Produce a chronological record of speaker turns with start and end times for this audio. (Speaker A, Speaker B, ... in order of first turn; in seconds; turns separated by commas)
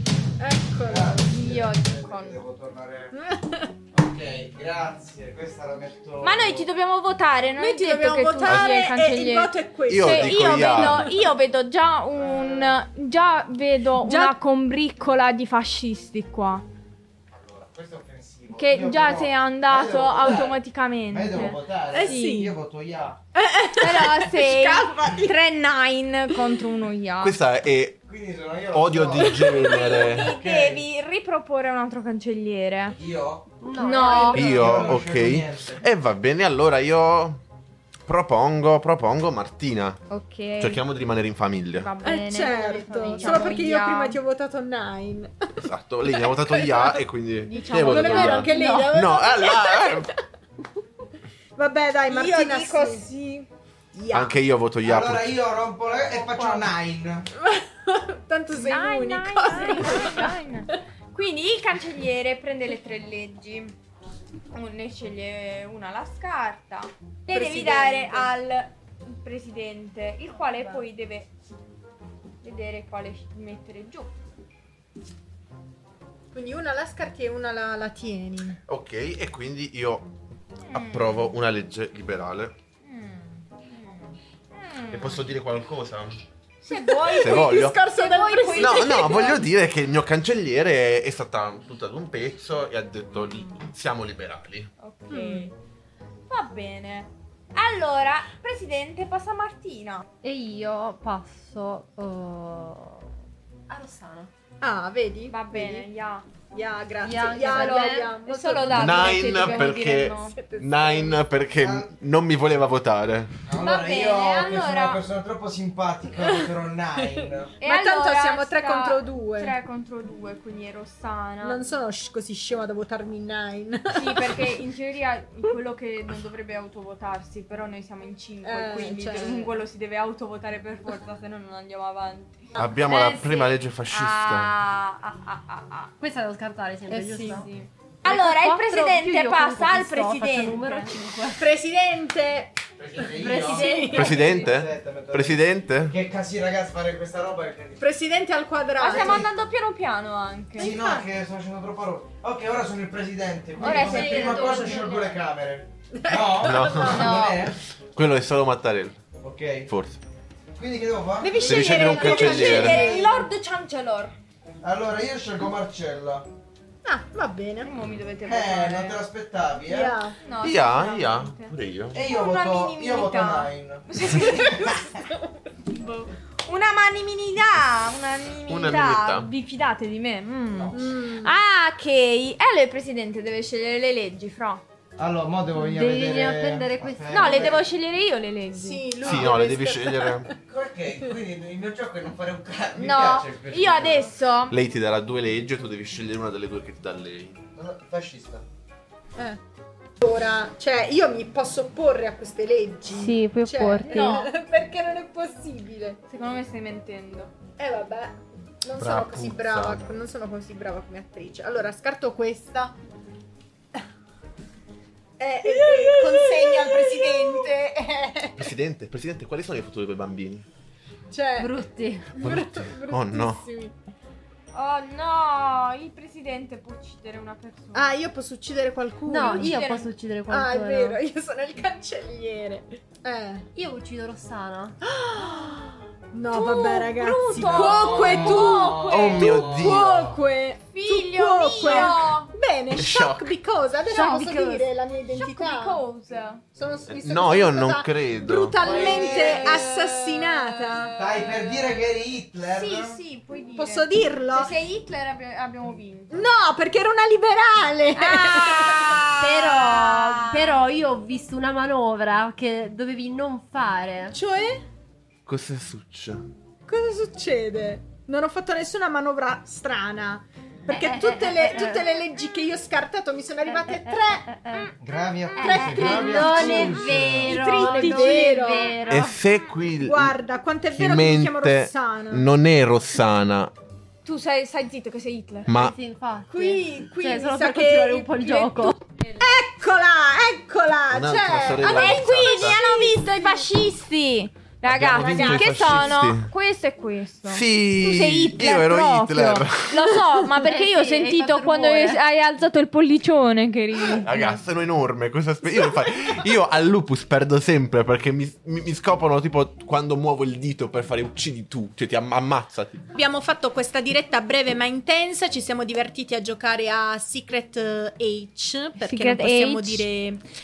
Speaker A: 0.4-1.2, Speaker B: 0.8-3.1, Speaker C: 1.3-2.4, Speaker A: 3.1-3.7, Speaker B: 3.9-6.7, Speaker C: 6.2-16.6, Speaker A: 7.6-11.2, Speaker D: 8.4-8.7, Speaker D: 9.9-11.2, Speaker B: 12.2-12.8, Speaker A: 14.0-14.3, Speaker B: 17.3-23.2, Speaker C: 18.5-22.5, Speaker A: 21.9-22.5, Speaker A: 23.4-25.4, Speaker C: 23.8-27.4, Speaker D: 27.2-28.0, Speaker B: 28.1-30.9, Speaker D: 28.7-30.4, Speaker C: 29.5-33.0, Speaker B: 32.9-33.5, Speaker E: 33.6-34.8, Speaker C: 33.7-34.6, Speaker D: 34.3-37.4, Speaker B: 34.4-35.9, Speaker D: 38.0-40.0, Speaker C: 40.1-40.8, Speaker D: 40.6-41.9, Speaker C: 41.7-44.2, Speaker A: 42.0-47.0, Speaker E: 42.5-43.6, Speaker D: 45.6-50.1, Speaker C: 47.5-48.4, Speaker A: 47.7-50.2, Speaker E: 47.7-49.0, Speaker A: 51.5-53.1, Speaker C: 52.1-53.5, Speaker A: 53.9-54.4, Speaker D: 54.1-55.3, Speaker B: 54.8-57.3, Speaker A: 57.4-60.4, Speaker C: 58.5-63.7, Speaker C: 64.5-71.3, Speaker A: 67.3-68.3, Speaker C: 72.4-74.1, Speaker A: 76.3-78.6, Speaker D: 78.7-80.1, Speaker C: 80.7-81.3, Speaker D: 80.7-82.5, Speaker C: 82.8-85.3, Speaker D: 84.9-86.2, Speaker C: 86.6-89.4, Speaker A: 86.7-89.4, Speaker D: 87.2-87.8, Speaker D: 88.5-94.7, Speaker C: 94.8-95.5, Speaker A: 95.1-95.5, Speaker C: 96.3-100.0, Speaker E: 100.2-103.1, Speaker E: 103.7-104.3, Speaker A: 104.6-105.9, Speaker C: 105.3-106.3, Speaker A: 106.5-111.2, Speaker E: 107.0-108.1, Speaker C: 107.4-110.4, Speaker D: 108.7-113.4, Speaker B: 111.6-111.9, Speaker B: 113.5-117.5, Speaker C: 113.6-115.0, Speaker A: 117.0-119.5, Speaker C: 117.6-121.6, Speaker A: 121.4-124.5, Speaker C: 123.9-135.9, Speaker A: 128.4-129.6, Speaker D: 132.6-134.5, Speaker E: 136.0-137.5, Speaker A: 136.9-137.5, Speaker C: 137.2-140.9, Speaker E: 138.0-141.5, Speaker A: 141.3-144.2, Speaker B: 142.8-147.8, Speaker E: 143.1-144.2, Speaker C: 143.5-144.4, Speaker D: 143.9-146.0, Speaker A: 147.8-149.2, Speaker C: 148.8-150.8, Speaker B: 148.9-149.3, Speaker B: 150.6-157.5, Speaker A: 150.6-151.1, Speaker C: 153.6-155.1, Speaker E: 153.7-154.8, Speaker A: 153.8-154.5, Speaker A: 156.0-157.2, Speaker D: 156.4-157.4, Speaker C: 156.9-157.5, Speaker D: 157.9-159.0, Speaker B: 159.2-159.7, Speaker D: 159.7-160.0, Speaker B: 160.6-162.1, Speaker A: 161.2-163.3, Speaker D: 161.4-163.0, Speaker C: 161.6-164.1, Speaker B: 164.6-166.3, Speaker A: 166.8-167.7, Speaker C: 167.6-169.0, Speaker B: 168.2-170.0, Speaker A: 169.7-170.2, Speaker C: 170.2-174.9, Speaker D: 170.4-172.0, Speaker B: 171.9-175.0, Speaker C: 175.7-184.6, Speaker D: 178.5-179.3, Speaker A: 180.7-181.3, Speaker B: 185.0-187.6, Speaker E: 185.5-187.6, Speaker C: 187.1-188.9, Speaker A: 188.5-190.4, Speaker D: 189.0-190.3, Speaker B: 190.5-194.1, Speaker C: 192.8-194.6, Speaker D: 194.5-197.4, Speaker B: 197.6-198.4, Speaker A: 200.0-206.0, Speaker E: 202.9-204.2, Speaker C: 203.8-204.3, Speaker C: 206.1-207.3, Speaker A: 207.6-212.8, Speaker D: 208.7-209.9, Speaker A: 215.2-218.5, Speaker C: 215.4-217.5, Speaker D: 218.4-220.4, Speaker A: 221.1-221.6, Speaker E: 221.4-222.2, Speaker A: 222.2-223.7, Speaker D: 222.2-223.4, Speaker C: 224.5-227.9, Speaker A: 227.7-229.7, Speaker E: 229.1-231.0, Speaker C: 229.2-229.9, Speaker A: 230.3-233.5, Speaker E: 233.5-234.8, Speaker A: 234.8-245.8, Speaker C: 236.3-239.4, Speaker B: 237.5-239.9, Speaker D: 238.6-240.2, Speaker C: 240.7-242.3, Speaker D: 242.8-243.3, Speaker C: 243.8-246.4, Speaker A: 246.6-250.9, Speaker D: 246.9-248.6, Speaker B: 248.6-249.7, Speaker C: 248.7-251.8, Speaker B: 251.0-253.0, Speaker C: 252.5-256.3, Speaker A: 253.6-254.5, Speaker A: 256.1-259.0, Speaker C: 257.9-260.7, Speaker E: 259.0-264.2, Speaker A: 264.1-264.6, Speaker D: 265.2-266.2, Speaker A: 266.7-274.3, Speaker E: 270.7-271.9, Speaker E: 273.5-274.7, Speaker B: 274.8-277.4, Speaker E: 275.4-279.2, Speaker A: 275.4-278.9, Speaker C: 275.4-278.8, Speaker D: 278.9-280.2, Speaker A: 279.8-282.2, Speaker D: 280.7-283.5, Speaker C: 284.0-285.5, Speaker D: 285.5-285.8, Speaker E: 285.5-288.8, Speaker A: 286.3-288.3, Speaker C: 288.2-289.3, Speaker A: 289.2-293.5, Speaker D: 290.9-292.6, Speaker C: 291.6-304.4, Speaker D: 294.6-296.3, Speaker A: 294.9-295.8, Speaker D: 297.3-300.2, Speaker E: 300.4-302.0, Speaker D: 304.0-312.8, Speaker A: 312.9-320.2, Speaker C: 318.8-319.9